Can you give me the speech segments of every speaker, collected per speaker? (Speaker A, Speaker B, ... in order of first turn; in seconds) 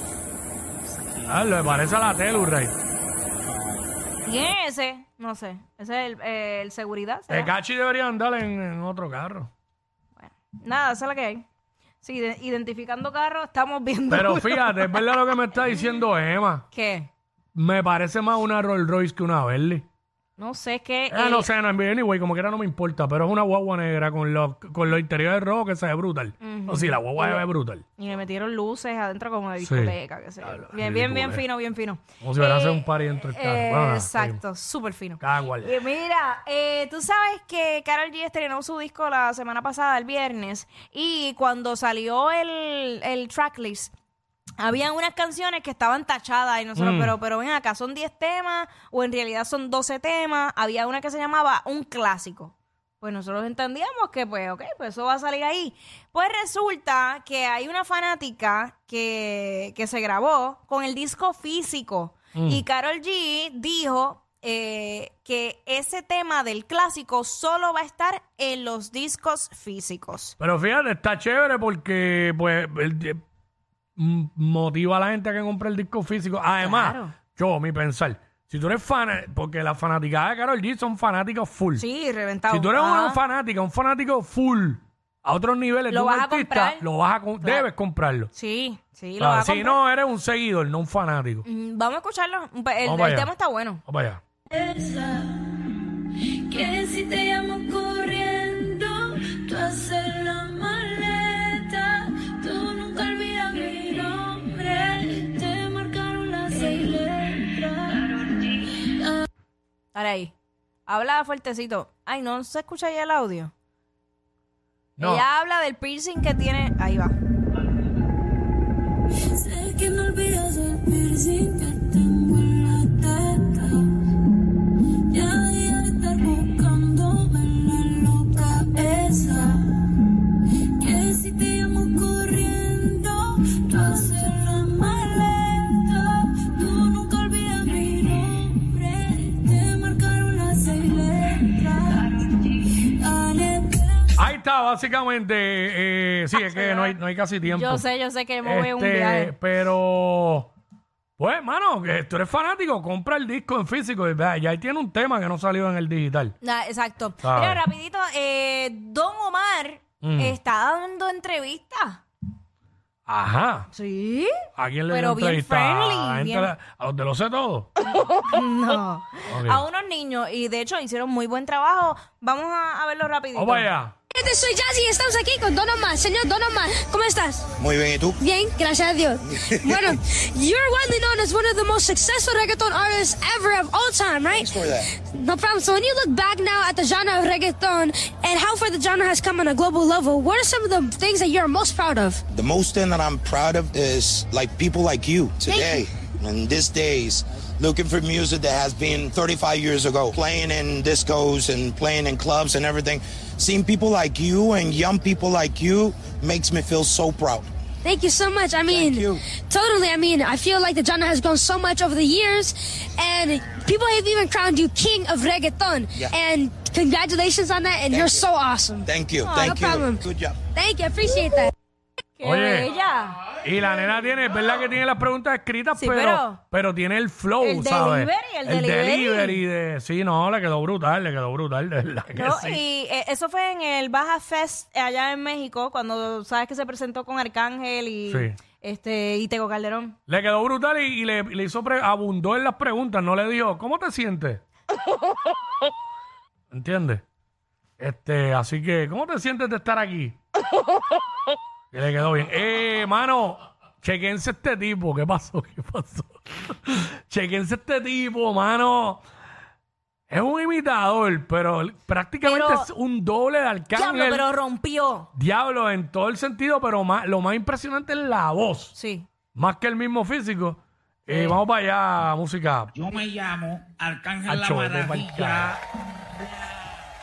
Speaker A: 1.2-2.7, 7.3-9.5, 14.1-16.6, 17.5-19.8, 21.1-27.8, 29.6-31.4, 32.2-34.4, 35.2-35.8, 46.8-47.1, 62.3-62.6, 70.4-73.2, 74.0-81.8, 82.5-88.3, 89.2-91.5, 92.8-93.3, 93.8-94.2, 115.0-115.2, 144.2-147.8, 148.4-150.5, 151.2-156.3, 157.2-157.6, 160.0-160.4, 163.1-163.7, 164.6-167.7, 169.3-169.6, 173.3-174.0, 222.2-222.7, 223.4-232.6, 238.1-238.4, 240.1-244.4, 246.5-247.0, 247.8-250.2, 251.7-259.0, 260.1-264.3, 265.1-268.7, 269.3-272.7, 274.2-275.6
Speaker B: 4.2-7.5, 10.2-11.4, 12.0-14.9, 16.7-17.1, 20.4-21.5, 26.4-27.4, 28.0-43.9, 44.6-70.4, 76.6-77.2, 81.8-83.2, 85.9-86.8, 87.4-87.7, 88.3-89.8, 91.4-93.8, 109.9-110.3, 110.9-113.5, 115.0-117.2, 146.5-146.9, 147.5-149.3, 156.4-162.0, 163.7-166.5, 167.8-173.7, 219.2-219.5, 222.2-223.2, 225.8-226.4, 227.4-229.4, 232.1-240.0, 262.2-262.7, 263.7-265.1, 268.7-269.1, 271.1-271.4
Speaker C: 94.5-95.7, 96.5-108.9, 119.3-123.9, 125.1-129.9, 130.8-144.0
Speaker D: 174.1-177.5, 178.2-192.2, 195.5-195.8, 207.8-221.5
Speaker E: 177.6-178.2, 179.2-180.0, 184.3-184.9, 192.3-207.5, 208.6-209.2, 217.9-218.3, 218.8-220.4
Speaker F: 272.7-275.5